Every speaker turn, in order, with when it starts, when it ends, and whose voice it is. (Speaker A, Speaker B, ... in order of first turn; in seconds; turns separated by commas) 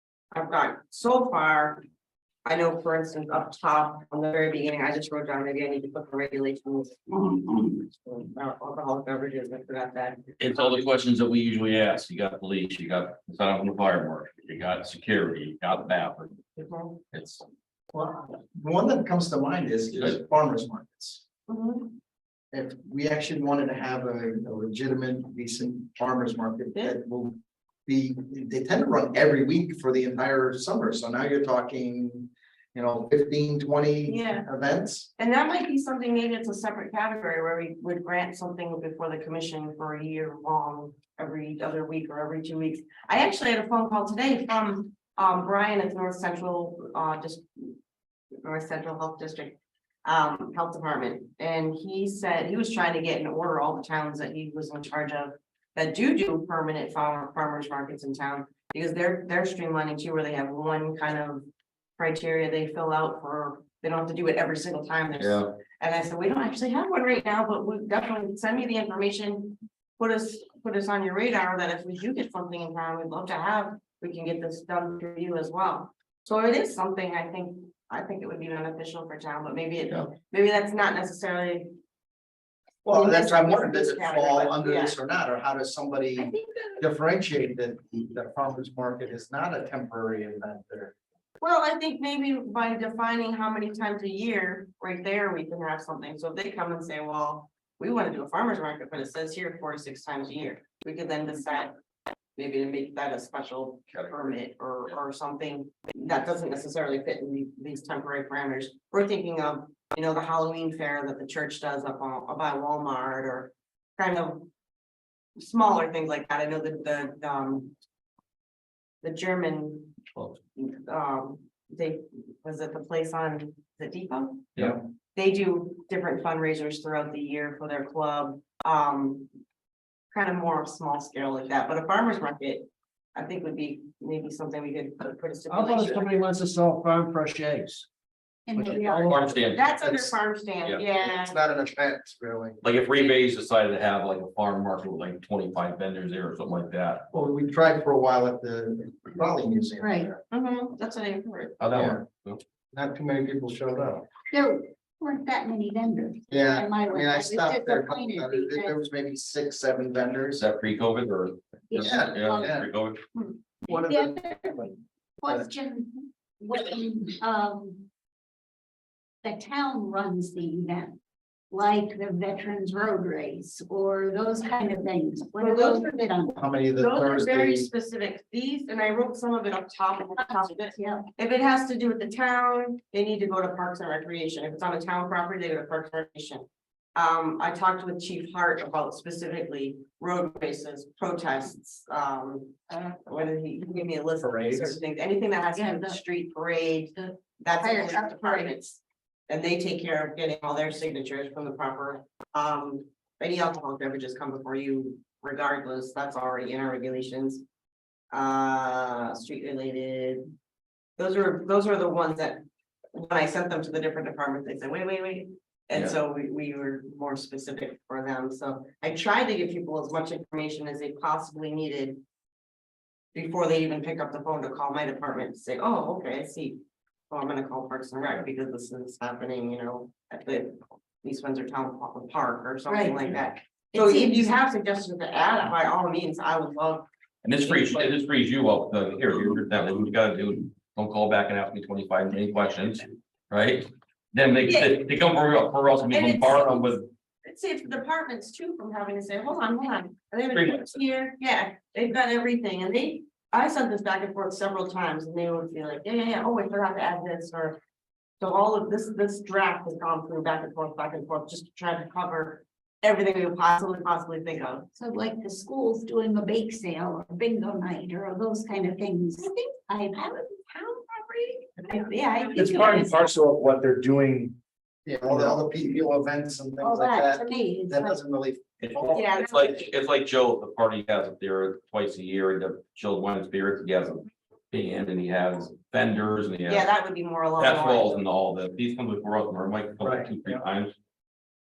Speaker A: 0.3-1.8, Speaker A: 2.5-10.3, Speaker B: 10.4-16.5, Speaker A: 16.6-17.0, Speaker B: 17.1-17.4, Speaker C: 17.9-21.2, Speaker B: 19.9-20.2, Speaker A: 21.5-22.0, Speaker C: 22.5-27.4, Speaker C: 27.9-35.1, Speaker A: 34.1-34.5, Speaker A: 35.2-47.8, Speaker A: 48.4-81.8, Speaker B: 65.2-65.5, Speaker C: 82.8-90.9, Speaker A: 82.9-84.9, Speaker A: 86.2-86.9, Speaker A: 91.4-101.8, Speaker A: 102.4-114.5, Speaker A: 115.4-117.8, Speaker A: 119.0-120.0, Speaker A: 120.6-124.5, Speaker A: 125.2-129.3, Speaker A: 130.1-136.2, Speaker D: 135.5-137.9, Speaker E: 138.5-139.2, Speaker D: 138.5-139.2, Speaker A: 138.7-141.3, Speaker B: 139.0-139.9, Speaker C: 139.8-140.1, Speaker C: 141.0-142.7, Speaker B: 142.6-147.0, Speaker C: 147.1-150.2, Speaker E: 149.8-150.1, Speaker A: 150.3-151.6, Speaker B: 151.6-152.4, Speaker C: 151.7-152.0, Speaker C: 152.7-154.1, Speaker E: 154.3-158.8, Speaker C: 156.3-160.4, Speaker B: 160.3-163.0, Speaker E: 161.7-162.5, Speaker C: 161.7-162.7, Speaker E: 163.2-164.6, Speaker C: 163.7-165.5, Speaker E: 165.2-167.9, Speaker E: 169.2-171.0, Speaker E: 171.5-176.4, Speaker A: 175.4-176.1, Speaker C: 176.3-177.7, Speaker A: 176.8-207.4, Speaker E: 180.2-181.0, Speaker F: 194.2-194.8, Speaker E: 195.5-196.0, Speaker E: 197.6-198.5, Speaker A: 208.1-210.3, Speaker A: 211.0-222.0, Speaker A: 223.1-236.9, Speaker E: 232.7-233.1, Speaker E: 233.7-234.3, Speaker B: 237.2-246.8, Speaker A: 237.5-237.9, Speaker A: 244.5-244.8, Speaker A: 245.9-257.6, Speaker B: 250.3-250.8, Speaker A: 258.2-264.7, Speaker E: 264.8-272.9, Speaker A: 269.2-269.5, Speaker A: 271.6-273.1, Speaker F: 272.4-274.4, Speaker C: 274.9-279.1, Speaker F: 275.1-275.4, Speaker E: 276.6-278.0, Speaker B: 278.6-286.7, Speaker A: 278.9-279.7, Speaker A: 286.5-288.0, Speaker B: 287.4-290.7, Speaker F: 289.8-290.1